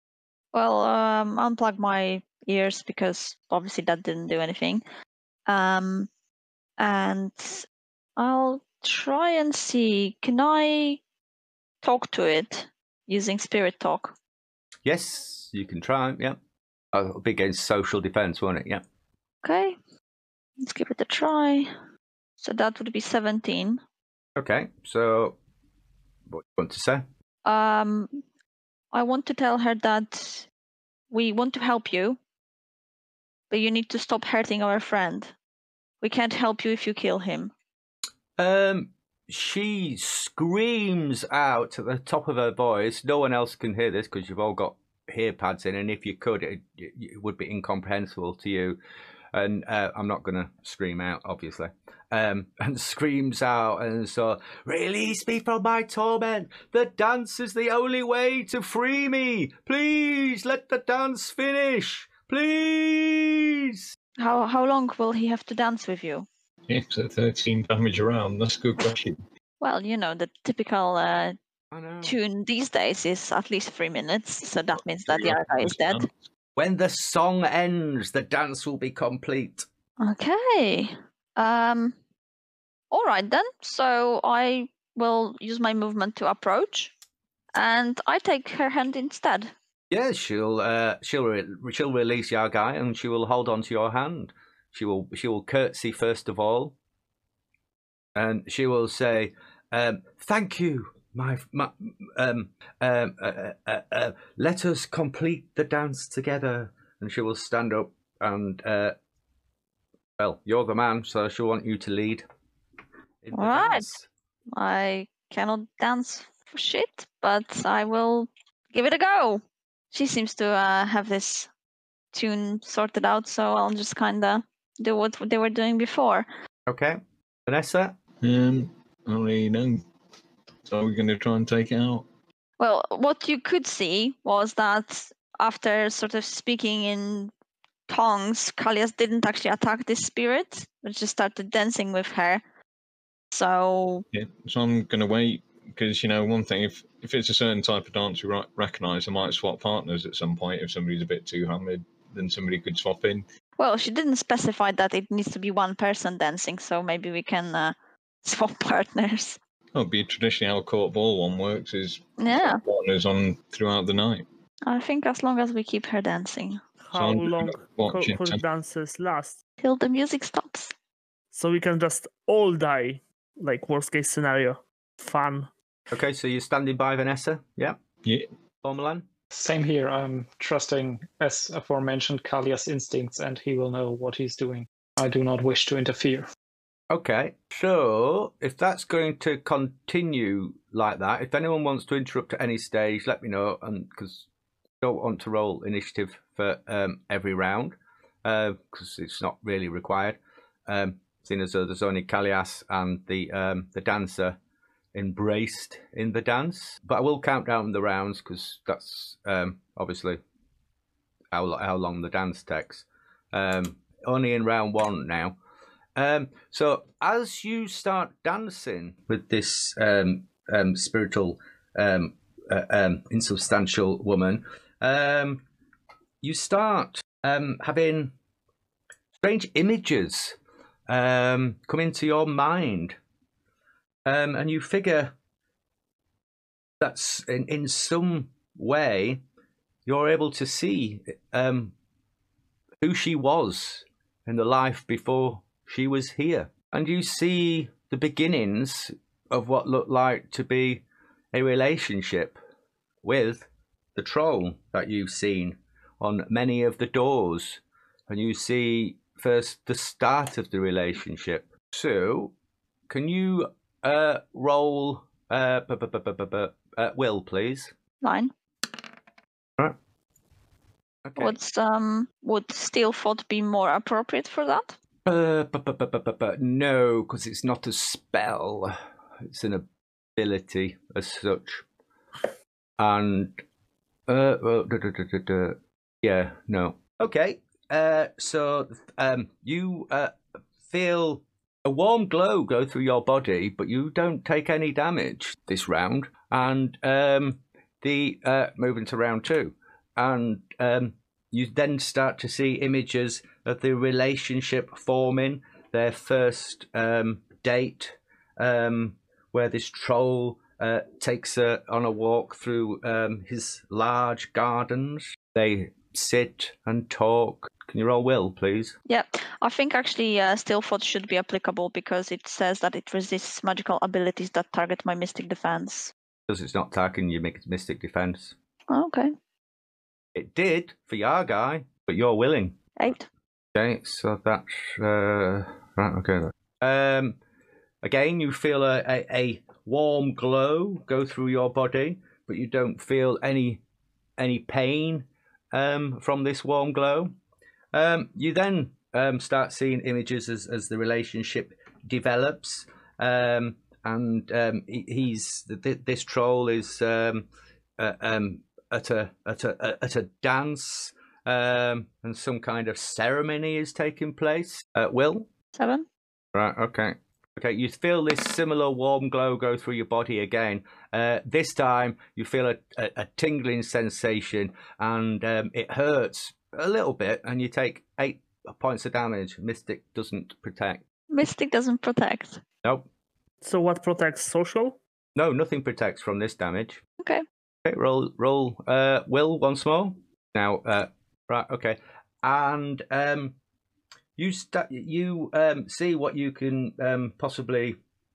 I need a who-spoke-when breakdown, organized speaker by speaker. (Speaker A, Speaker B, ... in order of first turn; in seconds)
Speaker A: 0.5-4.8, 5.5-6.1, 6.8-7.7, 8.2-11.0, 11.8-14.1, 19.4-19.8, 20.6-21.7, 22.4-23.8, 27.4-28.2, 28.9-30.5, 31.1-32.2, 33.5-35.3, 36.0-37.5, 64.2-66.3, 69.6-71.3, 72.0-76.1, 80.0-82.0, 82.9-86.9, 87.5-89.5, 113.3-113.8, 114.5-119.4, 119.9-121.5, 122.1-126.3, 132.6-137.3, 137.9-142.4, 143.3-144.0, 153.6-159.4, 162.2-162.6, 164.7-166.6, 169.6-170.7, 268.0-268.3, 271.1-274.8, 318.9-325.9, 328.7-329.1, 332.8-333.1, 365.5-365.9, 381.1-382.4
Speaker B: 14.8-16.4, 16.9-18.8, 24.4-25.4, 26.3-27.0, 38.4-48.8, 49.3-63.9, 71.7-72.2, 76.5-79.7, 89.9-96.7, 98.1-108.9, 110.2-112.2, 113.2-114.1, 126.7-128.0, 175.9-177.8, 178.6-179.1, 186.9-194.2, 194.8-204.4, 204.9-210.2, 211.3-215.3, 215.9-225.4, 226.2-228.1, 229.2-230.3, 230.9-233.0, 234.1-235.1, 236.8-239.2, 239.8-241.7, 242.8-252.4, 253.0-262.3, 262.9-267.7, 271.0-271.3, 275.1-278.8, 279.3-281.6, 282.8-283.4, 284.1-290.1, 290.7-318.8, 326.3-328.3, 330.1-332.6, 333.5-337.2, 337.8-343.6, 344.2-347.1, 347.7-357.2, 357.8-365.3, 366.3-380.8, 385.1-386.8, 387.6-393.3, 394.2-397.8
Speaker C: 66.7-69.2, 75.1-76.1, 128.2-129.8, 130.6-132.0, 144.1-153.2, 159.7-164.2, 166.9-168.4
Speaker D: 166.9-169.4, 171.3-175.5, 383.4-384.8
Speaker E: 179.3-186.3